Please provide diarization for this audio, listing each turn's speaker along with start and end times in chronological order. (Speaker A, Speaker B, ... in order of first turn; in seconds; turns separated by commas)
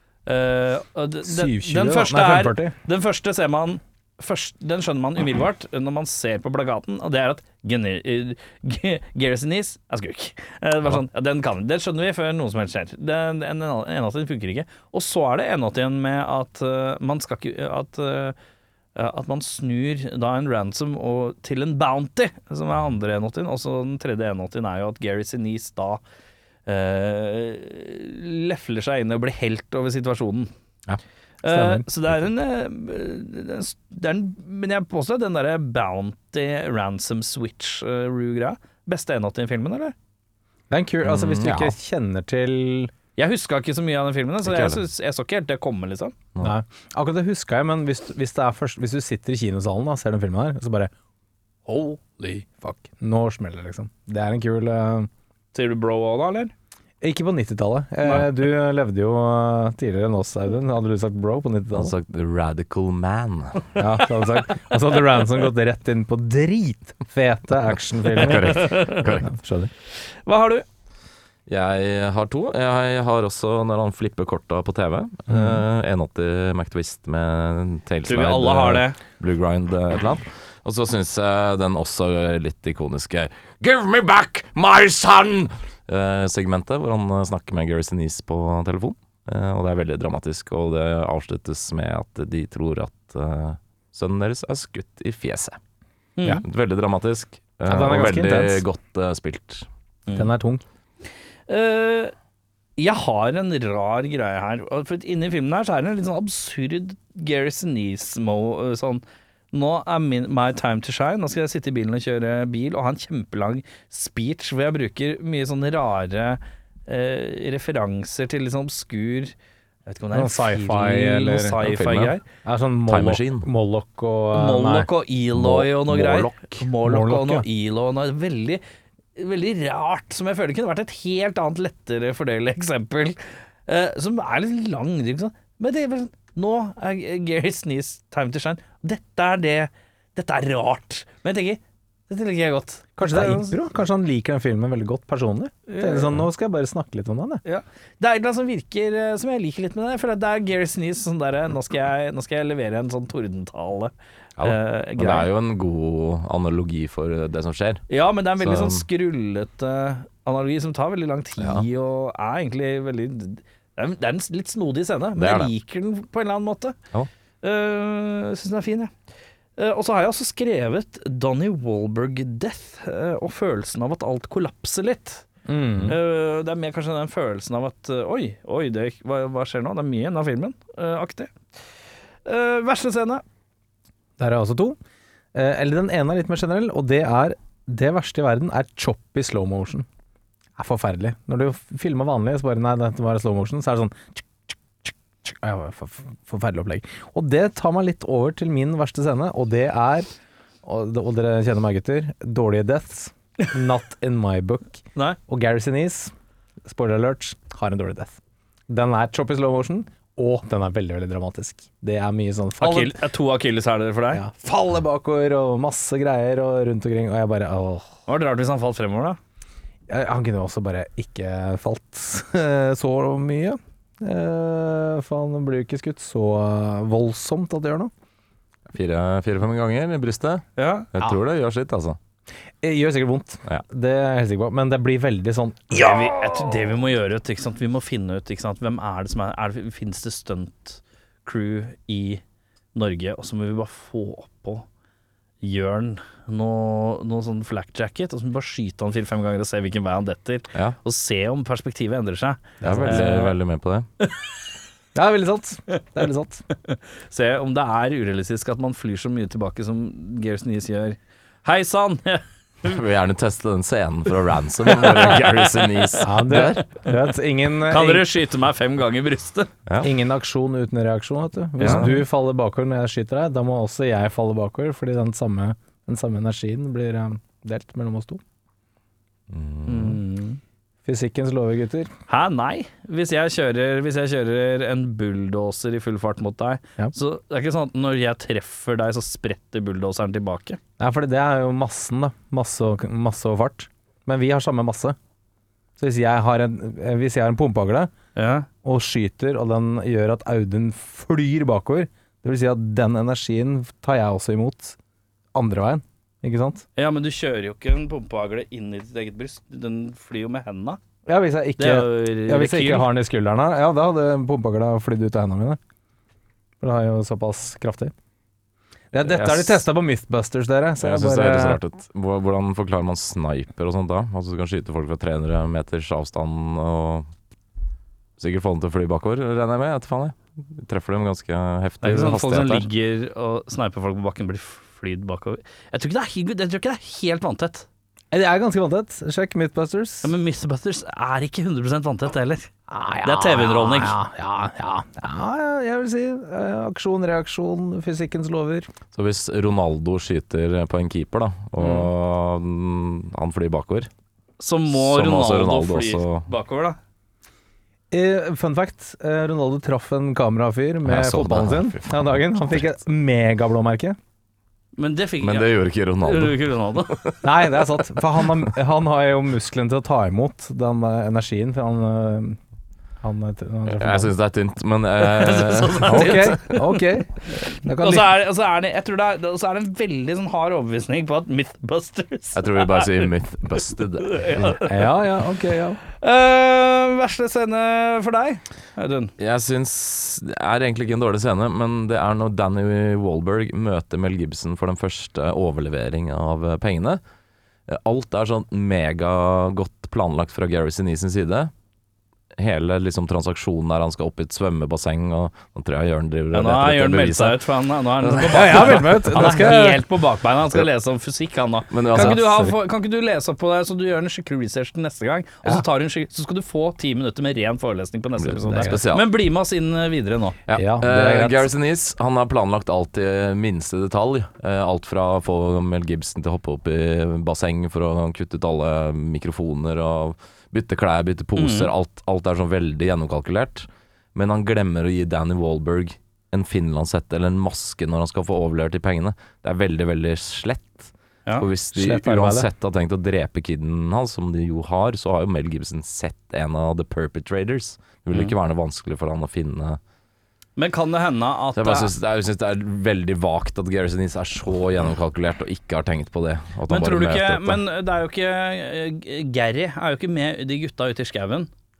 Speaker A: 0.3-18.4, Speaker B: 1.2-2.8, Speaker A: 19.0-26.0, Speaker A: 26.7-30.5, Speaker A: 31.4-40.0, Speaker B: 31.4-31.9, Speaker B: 40.7-42.9, Speaker C: 41.0-41.8, Speaker A: 43.2-46.2, Speaker C: 44.4-44.8, Speaker B: 46.4-50.9, Speaker B: 51.7-55.1, Speaker A: 51.8-52.2, Speaker A: 55.5-56.5, Speaker B: 57.0-62.0, Speaker C: 61.7-63.8, Speaker B: 63.8-69.7, Speaker C: 68.1-69.3, Speaker A: 68.2-69.0, Speaker A: 70.2-70.7, Speaker C: 71.5-95.6, Speaker B: 75.3-75.6, Speaker A: 78.1-79.0, Speaker A: 96.2-96.4, Speaker C: 96.4-99.7, Speaker B: 97.7-98.6, Speaker B: 100.1-100.6, Speaker A: 101.5-102.1, Speaker A: 102.8-119.3, Speaker A: 119.9-122.2, Speaker B: 120.1-121.6, Speaker C: 121.6-122.1, Speaker B: 122.4-124.9, Speaker C: 122.9-123.5, Speaker A: 124.3-128.6, Speaker C: 125.3-126.6, Speaker B: 126.8-127.5, Speaker A: 129.2-143.6, Speaker B: 143.0-147.4, Speaker A: 145.7-146.2, Speaker A: 147.4-155.3, Speaker C: 154.4-157.9, Speaker A: 157.9-166.8, Speaker C: 158.4-158.8, Speaker C: 161.4-161.7, Speaker C: 165.2-165.5, Speaker A: 167.4-168.9, Speaker A: 169.6-175.3, Speaker B: 175.5-176.0, Speaker A: 175.9-181.3, Speaker A: 182.2-183.2, Speaker B: 184.2-184.8, Speaker B: 185.3-189.9, Speaker B: 190.6-200.1, Speaker B: 200.6-206.1, Speaker B: 206.7-208.2, Speaker B: 208.7-213.0, Speaker A: 212.6-214.2, Speaker B: 214.1-217.9, Speaker A: 218.1-219.2, Speaker B: 219.9-227.9, Speaker C: 228.7-232.0, Speaker A: 230.6-230.9, Speaker B: 232.6-236.2, Speaker A: 235.7-242.2, Speaker A: 242.8-244.7, Speaker A: 245.4-253.3, Speaker B: 252.6-253.2, Speaker C: 252.6-253.9, Speaker B: 254.9-256.4, Speaker A: 256.6-262.8, Speaker C: 262.7-266.6, Speaker A: 264.7-265.8, Speaker B: 266.0-268.1, Speaker A: 267.6-269.5, Speaker B: 269.8-278.2, Speaker C: 271.6-271.9, Speaker A: 271.6-272.0, Speaker C: 279.3-280.0, Speaker A: 279.7-280.4, Speaker B: 280.9-281.9, Speaker A: 282.1-290.6, Speaker B: 290.8-295.0, Speaker B: 295.8-297.9, Speaker A: 298.2-298.5, Speaker B: 298.6-304.8, Speaker B: 305.3-306.6, Speaker A: 306.8-310.8, Speaker B: 311.1-315.6, Speaker A: 311.6-312.9, Speaker B: 316.6-317.9, Speaker B: 318.9-321.6, Speaker C: 319.1-319.6, Speaker C: 320.8-327.1, Speaker C: 328.2-332.7, Speaker A: 331.8-337.7, Speaker B: 338.1-340.1, Speaker A: 340.0-342.5, Speaker B: 342.7-348.7, Speaker A: 343.0-344.0, Speaker C: 348.9-353.9, Speaker B: 351.6-351.9, Speaker A: 354.4-356.8, Speaker C: 354.7-356.3, Speaker B: 357.9-364.0, Speaker C: 360.9-362.6, Speaker A: 364.8-367.1, Speaker C: 365.2-367.2, Speaker B: 367.2-372.4, Speaker B: 373.0-374.1, Speaker C: 373.7-376.4, Speaker A: 375.0-376.9, Speaker B: 375.8-378.1, Speaker A: 377.8-383.1, Speaker C: 382.3-384.6, Speaker A: 384.0-384.7, Speaker B: 384.6-385.8, Speaker A: 386.0-389.1, Speaker C: 389.2-397.0, Speaker C: 397.7-401.5, Speaker C: 402.4-407.5, Speaker A: 406.3-420.4, Speaker C: 408.0-408.9, Speaker B: 408.3-409.8, Speaker C: 411.7-412.3, Speaker B: 411.9-412.5, Speaker C: 418.2-419.1, Speaker B: 418.5-418.8, Speaker C: 420.5-449.8, Speaker B: 420.5-421.5, Speaker A: 431.4-431.7, Speaker B: 441.7-442.5, Speaker A: 450.6-451.9, Speaker C: 451.6-457.6, Speaker A: 456.7-461.5